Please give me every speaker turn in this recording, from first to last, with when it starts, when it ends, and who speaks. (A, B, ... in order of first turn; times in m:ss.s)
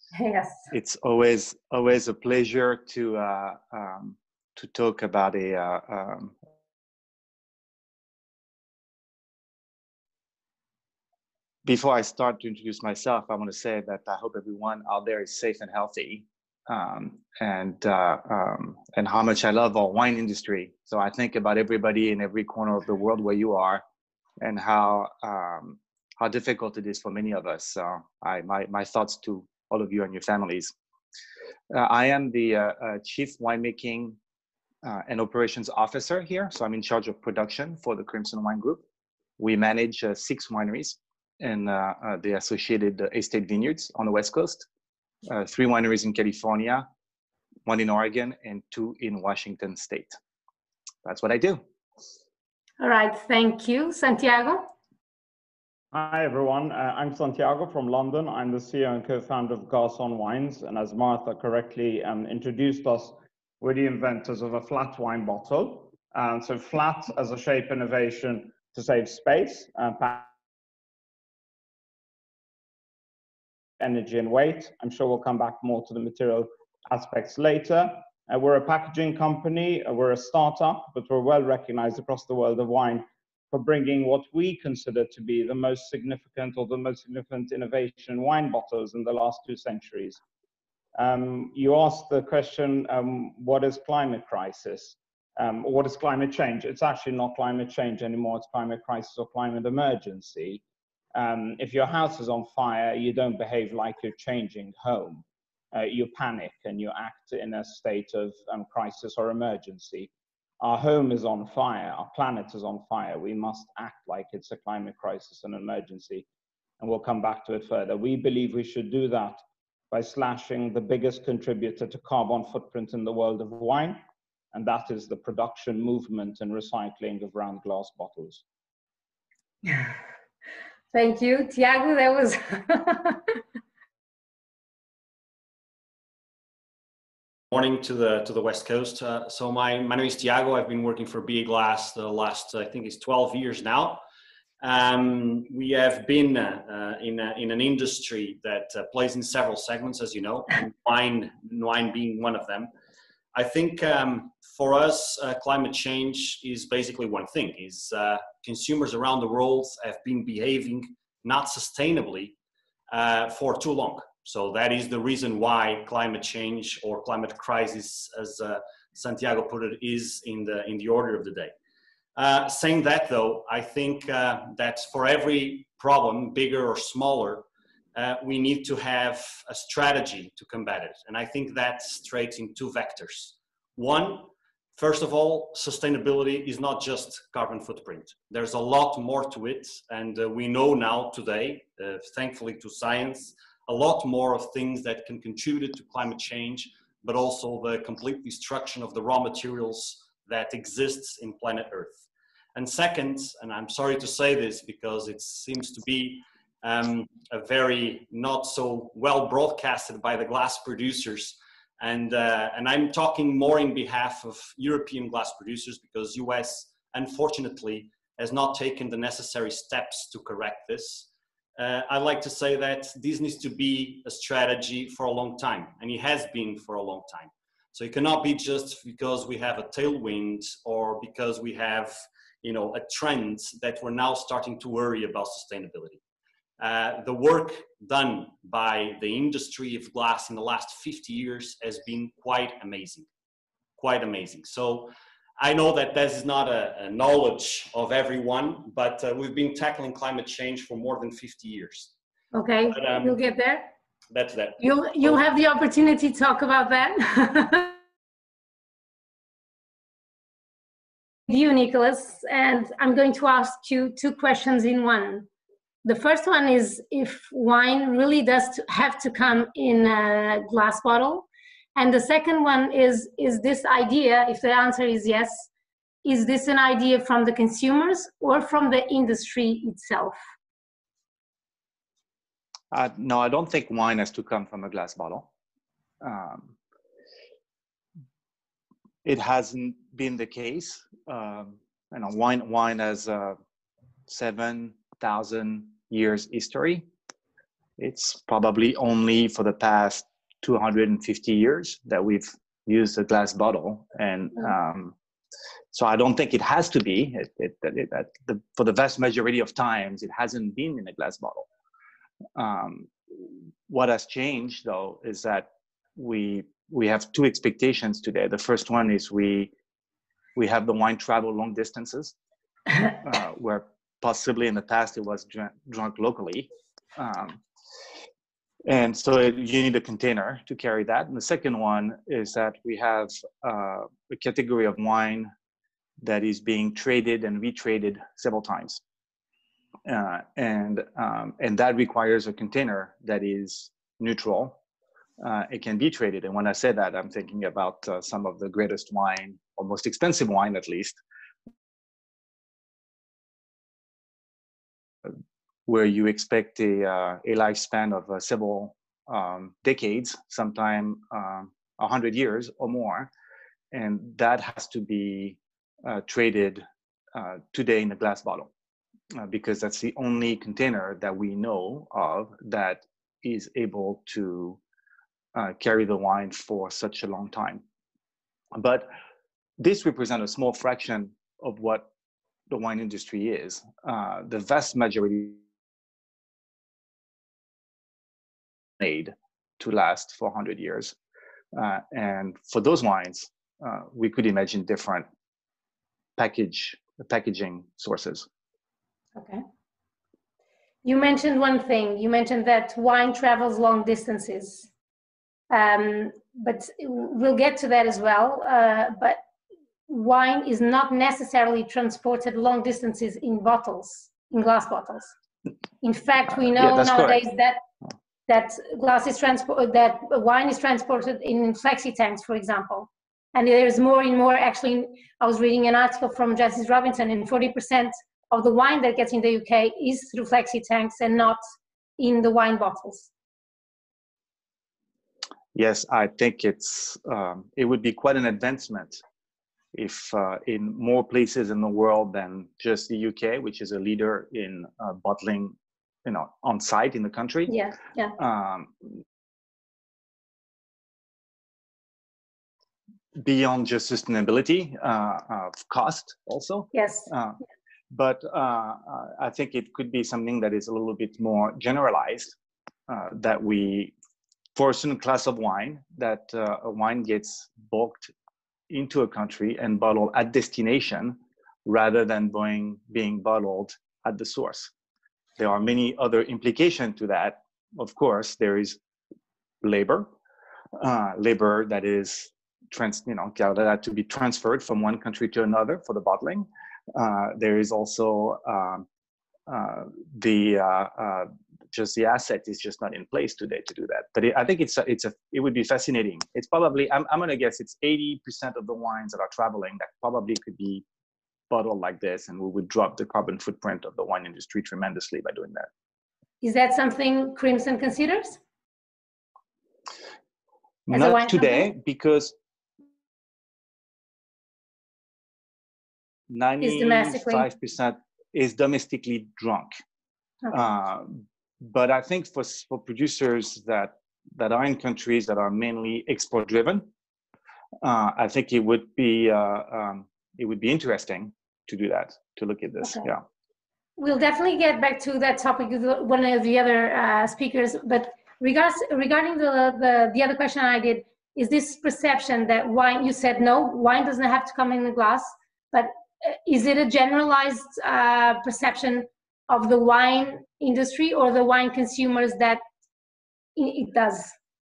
0:00.2-0:00.7 A
0:00.7-0:06.4 B
0:11.6-0:23.8 B
0:24.4-0:30.7 B
0:31.7-0:34.2 B
0:34.8-0:38.8 B
0:39.4-0:44.7 B
0:45.3-0:46.9 B
0:47.7-0:50.2 B
0:51.0-0:51.6 B
0:52.8-0:54.7 A
0:55.9-1:10.3 C
1:13.8-1:30.2 C
1:31.0-1:40.6 C
1:41.1-1:56.3 C
1:56.8-2:04.0 C
2:04.5-2:08.4 C
2:09.6-2:10.0 A
2:10.9-2:13.4 A
2:17.5-2:24.0 D
2:24.6-2:32.7 D
2:33.3-2:42.4 D
2:42.9-2:51.5 D
2:52.2-3:22.0 D
3:22.6-3:56.0 D
3:56.6-4:03.1 D
4:03.8-4:11.9 D
4:12.3-4:13.7 A
4:12.7-4:13.2 D
4:14.1-4:15.2 D
4:14.6-4:17.8 A
4:21.3-4:25.3 A
4:25.8-4:35.5 A
4:36.0-4:40.2 A
4:42.7-4:45.3 B
4:46.0-4:46.6 B
4:49.0-4:53.4 B
4:54.1-4:56.9 B
4:57.8-5:05.0 B
5:05.7-5:11.5 B
5:12.4-5:19.5 B
5:20.4-5:22.1 B
5:23.0-5:27.4 B
5:28.7-5:35.3 B
5:36.0-5:38.8 B
5:39.8-5:44.6 B
5:45.2-5:51.0 B
5:55.7-6:03.1 B
6:03.7-6:08.5 B
6:09.2-6:14.6 B
6:15.4-6:17.6 B
6:18.6-6:18.9 B
6:19.6-6:21.9 B
6:22.5-6:25.4 B
6:28.8-6:31.0 B
6:31.5-6:35.1 B
6:36.2-6:38.3 B
6:39.2-6:39.4 A
6:40.8-6:44.7 A
6:45.5-6:49.2 A
6:49.9-6:55.1 A
6:55.8-6:57.6 A
6:56.5-6:57.2 B
6:58.3-7:11.4 A
7:12.0-7:13.1 A
7:15.5-7:19.0 B
7:19.7-7:27.5 B
7:27.5-7:28.2 A
7:28.2-7:29.0 B
7:33.2-7:37.4 B
7:36.7-7:37.1 A
7:37.9-7:42.4 B
7:42.9-7:43.9 B
7:44.6-7:48.1 B
7:48.7-7:54.7 B
7:55.4-7:58.8 B
7:59.6-8:00.1 B
8:00.8-8:08.9 B
8:09.5-8:20.8 B
8:21.5-8:25.7 B
8:26.4-8:28.4 A
8:30.9-8:32.4 B
8:30.9-8:31.7 A
8:36.3-8:39.8 B
8:36.6-8:37.5 A
8:40.5-8:46.9 B
8:47.8-8:53.2 B
8:54.0-9:12.6 A
9:13.6-9:14.3 A